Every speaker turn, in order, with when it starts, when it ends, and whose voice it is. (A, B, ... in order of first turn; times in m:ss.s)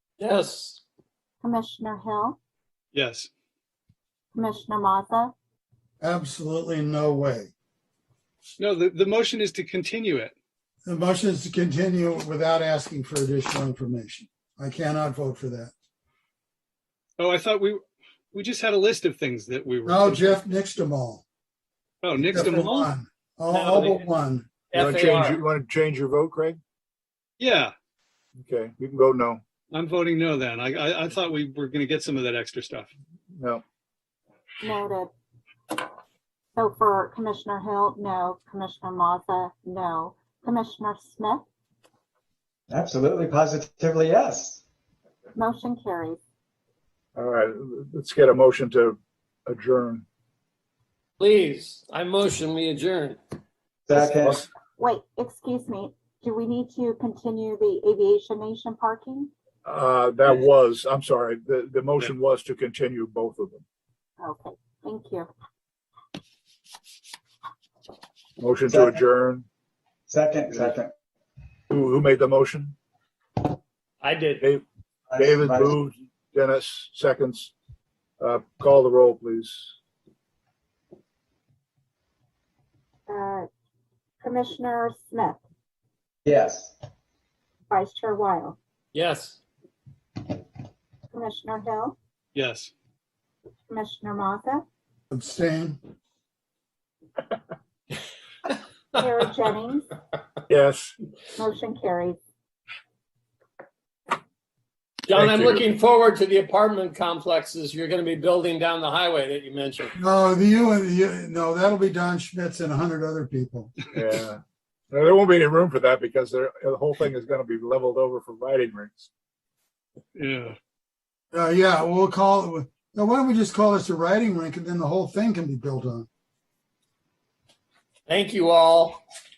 0:00.2-0:00.8 A
0:01.4-0:02.4 B
0:02.9-0:03.3 C
0:04.3-0:05.3 B
0:06.0-0:07.5 D
0:08.6-0:10.3 C
0:10.8-0:15.7 D
0:17.2-0:20.4 C
0:19.8-0:21.2 D
0:22.0-0:22.9 C
0:22.2-0:24.5 D
0:23.5-0:24.0 A
0:24.7-0:25.4 A
0:24.7-0:26.6 E
0:27.4-0:27.7 C
0:28.4-0:29.4 E
0:29.7-0:32.9 C
0:33.4-0:33.6 E
0:34.6-0:35.1 B
0:36.6-0:41.4 B
0:42.7-0:44.6 F
0:45.3-0:46.2 B
0:47.2-0:50.0 E
0:51.2-0:53.2 A
0:53.9-0:54.5 F
0:53.9-0:54.5 E
0:54.8-0:59.3 B
0:59.6-1:03.6 E
1:04.2-1:05.3 B
1:08.4-1:09.4 E
1:08.7-1:09.0 F
1:10.1-1:10.9 F
1:11.7-1:12.8 E
1:14.0-1:14.4 A
1:15.1-1:15.8 F
1:15.2-1:17.5 E
1:18.2-1:19.7 E
1:23.1-1:23.5 B
1:24.2-1:25.4 B
1:26.2-1:26.7 F
1:27.7-1:28.6 B
1:28.9-1:29.4 A
1:31.1-1:32.0 B
1:32.3-1:32.7 C
1:33.7-1:34.6 B
1:35.1-1:35.8 D
1:38.9-1:39.9 B
1:40.5-1:40.9 E
1:41.4-1:42.2 B
1:45.1-1:49.9 A
1:45.1-1:45.6 E
1:50.0-1:53.7 D
1:53.9-1:59.1 E
2:00.1-2:00.6 C
2:01.3-2:06.1 D
2:08.1-2:09.0 A